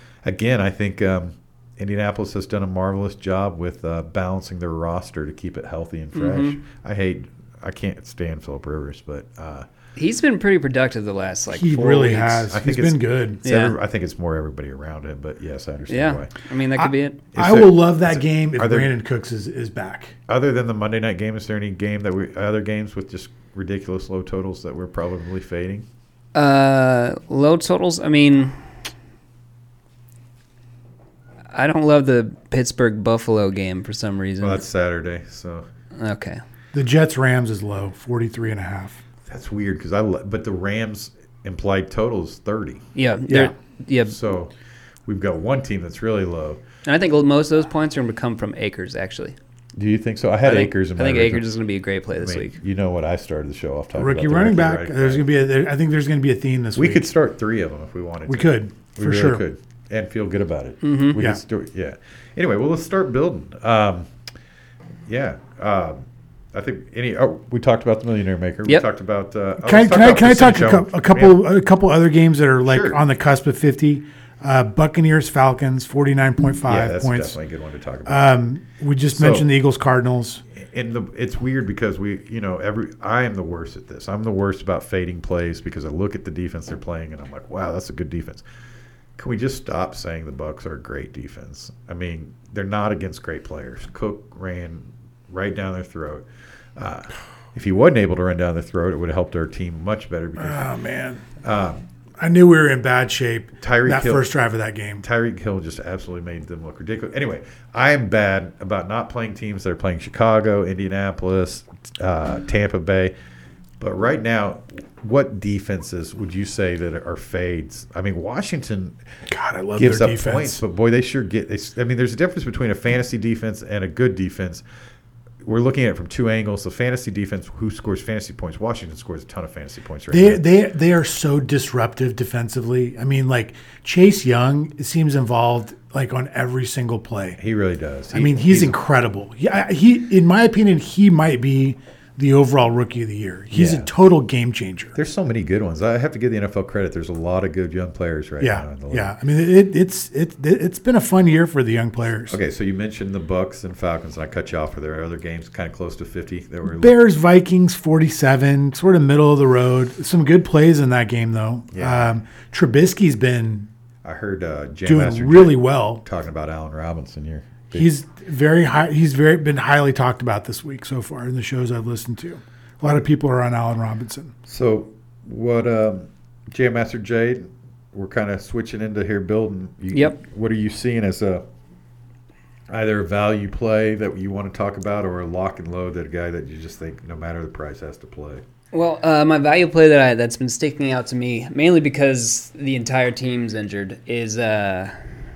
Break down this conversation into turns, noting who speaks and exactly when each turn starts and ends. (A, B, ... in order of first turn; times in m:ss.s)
0:00.2-0:09.7 A
0:06.1-0:06.6 B
0:10.0-0:12.4 B
0:11.5-0:13.4 C
0:12.5-0:16.3 A
0:13.4-0:13.8 B
0:15.9-0:17.2 B
0:16.8-0:20.1 C
0:17.3-0:18.9 A
0:20.3-0:25.9 A
0:26.3-0:28.5 B
0:31.5-0:34.6 B
0:34.4-0:35.7 A
0:36.0-0:36.4 B
0:36.7-0:39.0 C
0:39.2-0:42.8 A
0:43.0-0:44.2 B
0:44.0-0:44.5 A
0:45.0-0:46.6 A
0:46.8-0:49.4 B
0:49.8-0:51.5 A
0:50.4-0:52.6 B
0:52.1-0:55.3 A
0:53.9-0:57.1 C
0:56.7-1:04.1 A
0:58.3-0:59.4 C
1:00.8-1:01.2 B
1:05.1-1:11.4 A
1:09.6-1:17.4 C
1:12.6-1:13.0 A
1:16.6-1:18.4 A
1:18.0-1:20.4 C
1:19.1-1:19.5 A
1:20.5-1:28.4 A
1:29.2-1:40.7 A
1:40.4-1:41.2 C
1:41.4-1:41.8 A
1:42.2-1:45.0 C
1:43.6-1:44.3 A
1:45.0-1:53.1 A
1:53.8-1:59.0 A
1:59.3-2:00.6 C
1:59.8-2:04.6 A
2:05.4-2:10.4 A
2:10.1-2:17.4 C
2:17.4-2:18.8 A
2:18.1-2:25.0 C
2:23.5-2:23.9 A
2:24.9-2:29.1 A
2:28.4-2:32.4 C
2:32.3-2:37.0 A
2:36.6-2:43.7 C
2:41.7-2:42.1 A
2:44.0-2:47.9 A
2:44.8-2:46.0 C
2:47.7-2:54.3 C
2:54.5-3:01.4 A
3:02.7-3:08.4 A
3:08.7-3:14.9 B